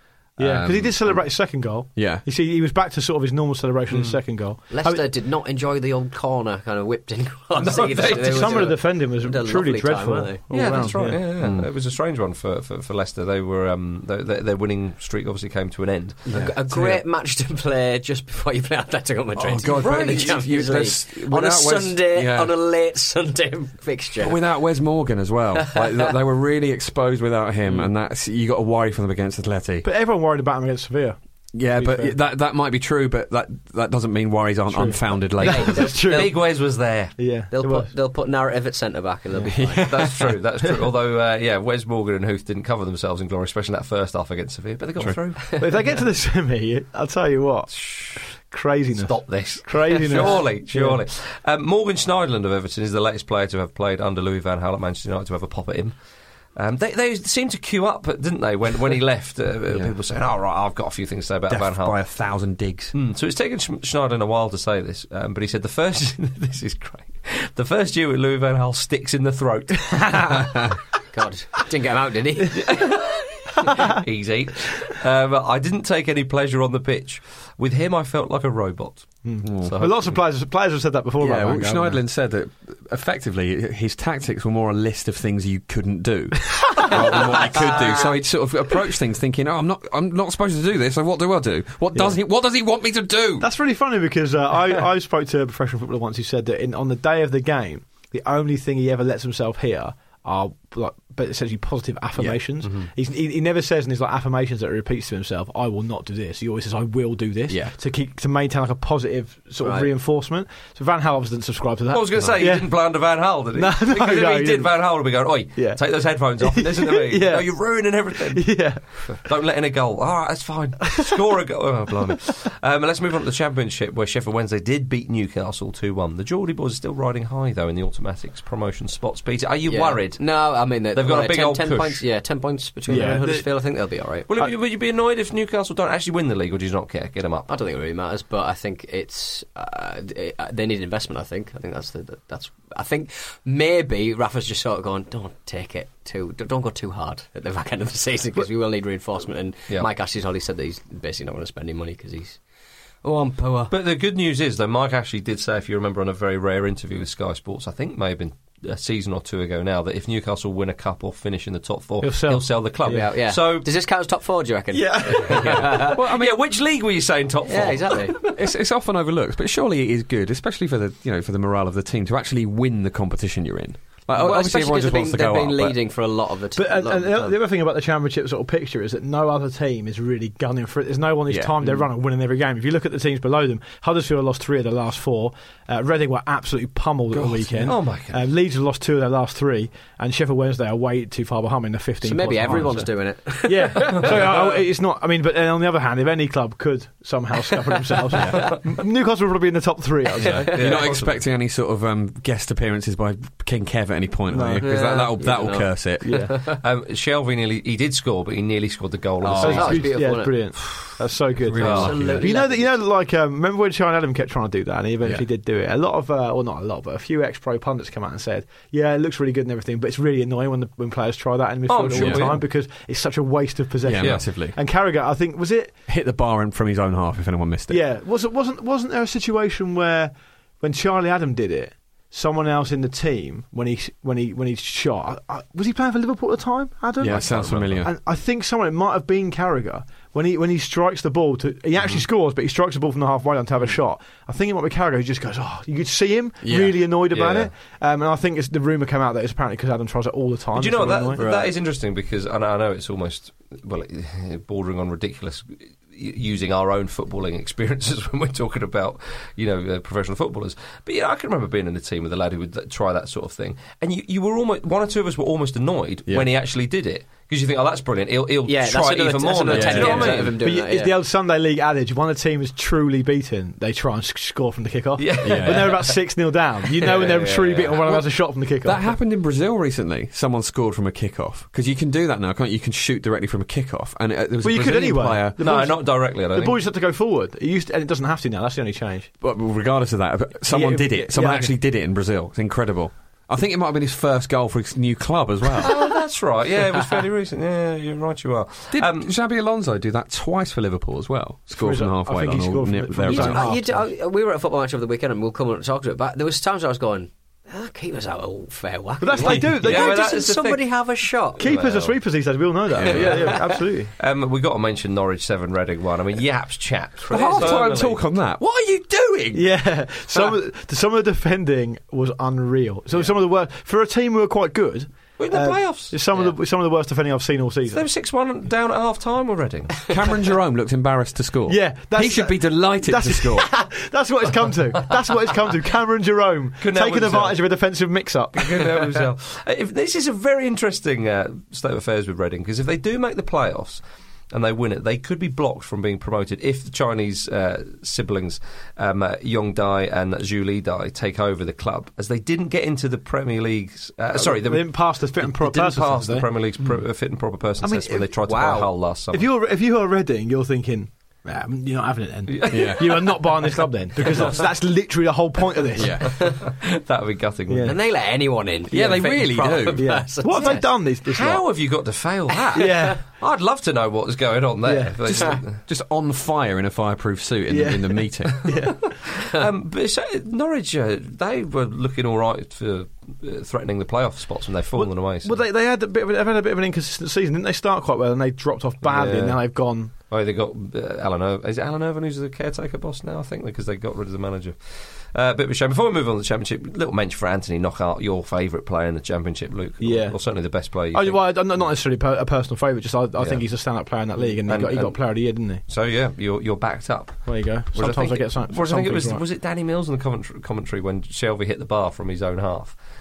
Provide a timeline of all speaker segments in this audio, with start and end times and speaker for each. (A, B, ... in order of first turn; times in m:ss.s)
0:00.4-0:01.3 A
0:00.4-0:05.1 B
0:02.0-0:02.2 A
0:04.7-0:10.4 C
0:07.6-0:08.8 D
0:07.8-0:11.2 B
0:10.5-0:16.3 D
0:11.4-0:11.7 A
0:16.3-0:17.0 A
0:16.3-0:24.4 C
0:19.4-0:22.5 A
0:19.6-0:20.4 D
0:24.2-0:29.9 A
0:29.8-0:31.2 B
0:31.5-0:35.9 A
0:31.7-0:32.2 B
0:34.7-0:36.5 B
0:35.4-0:36.3 C
0:35.4-0:37.1 D
0:37.2-0:37.9 B
0:37.5-0:39.8 C
0:39.5-0:40.4 A
0:39.8-0:45.6 D
0:45.6-0:51.0 B
0:47.8-0:48.2 D
0:48.9-0:56.0 D
0:56.6-1:02.0 D
1:01.5-1:02.9 A
1:02.9-1:10.5 D
1:10.0-1:10.4 B
1:11.1-1:12.8 C
1:12.5-1:20.2 D
1:19.2-1:22.0 B
1:19.4-1:19.8 A
1:21.2-1:33.5 A
1:26.8-1:27.2 B
1:26.9-1:28.2 C
1:31.9-1:32.2 B
1:33.4-1:52.8 B
1:47.5-1:47.8 A
1:49.6-1:49.9 C
1:51.9-2:12.0 D
1:53.4-1:54.8 B
1:55.6-1:55.8 B
1:56.4-1:58.8 B
2:09.7-2:14.3 C
2:12.9-2:13.5 B
2:14.3-2:17.5 D
2:17.5-2:32.4 C
2:33.0-2:33.7 C
2:33.7-2:43.7 D
2:42.0-2:43.1 B
2:42.9-2:46.0 C
2:44.7-2:48.3 D
2:45.2-2:46.4 A
2:47.5-2:48.2 C
2:48.3-2:55.8 A
2:54.1-2:57.4 C
2:56.6-3:12.9 B
3:01.3-3:01.8 A
3:07.1-3:07.7 A
3:07.7-3:08.2 D
3:12.0-3:14.4 C
3:13.4-3:20.5 B
3:14.0-3:14.5 D
3:18.2-3:18.5 A
3:20.2-3:21.3 D
3:20.2-3:26.3 A
3:24.3-3:24.7 B
3:24.6-3:26.6 C
3:26.0-3:26.3 B
3:26.6-3:30.0 D
3:29.2-3:29.8 A
3:29.4-3:45.8 B
3:29.5-3:30.4 C
3:31.4-3:32.3 A
3:31.6-3:32.1 D
3:31.8-3:32.7 C
3:41.7-3:42.4 D
3:42.0-3:42.3 A
3:43.8-3:44.6 A
3:43.9-3:44.2 D
3:45.9-3:47.8 A
3:47.7-4:11.2 B
3:57.0-3:57.9 A
4:01.8-4:02.1 D
4:06.4-4:06.8 A
4:07.1-4:07.5 D
4:10.5-4:30.4 D
4:11.2-4:11.5 A
4:28.5-4:30.9 C
4:29.5-4:30.4 A
4:30.4-4:38.8 B
4:35.0-4:36.0 D
4:35.2-4:35.8 A
4:36.7-4:38.0 D
4:38.6-4:45.4 A
4:44.4-4:49.1 B
4:45.4-4:46.6 D
4:49.2-4:55.8 A
4:50.5-4:51.6 B
4:55.6-4:59.1 D
4:58.7-5:03.6 A
5:01.6-5:03.8 B
5:03.1-5:11.4 C
5:09.0-5:10.0 B
5:09.5-5:10.6 D
5:11.4-5:12.0 D
5:11.4-5:13.9 B
5:12.8-5:13.4 A
5:12.9-5:13.3 C
5:14.0-5:18.0 D
5:17.1-5:19.4 A
5:19.3-5:27.8 B
5:25.2-5:26.0 D
5:27.7-5:29.8 D
5:29.9-5:33.5 A
5:31.5-5:38.8 B
5:36.6-5:37.4 D
5:38.4-5:43.8 D
5:44.3-5:59.3 D
5:54.2-5:56.3 B
5:57.6-5:58.1 B
5:58.2-5:58.7 C
5:59.1-6:06.1 B
6:02.3-6:03.2 D
6:02.5-6:03.2 A
6:04.1-6:04.4 D
6:05.8-6:06.2 A
6:06.0-6:07.7 D
6:07.5-6:07.8 B
6:07.6-6:10.7 C
6:08.7-6:09.9 A
6:09.8-6:11.5 B
6:10.3-6:15.6 D
6:12.6-6:13.0 B
6:12.6-6:13.0 C
6:14.6-6:15.0 B
6:15.0-6:18.4 A
6:17.5-6:18.9 B
6:19.2-6:25.4 D
6:24.8-6:29.9 B
6:28.8-6:29.4 D
6:30.1-6:41.7 D
6:39.8-6:40.2 B
6:40.9-6:45.6 B
6:43.2-6:43.4 D
6:44.2-6:45.0 D
6:45.7-6:52.8 D
6:47.3-6:49.2 B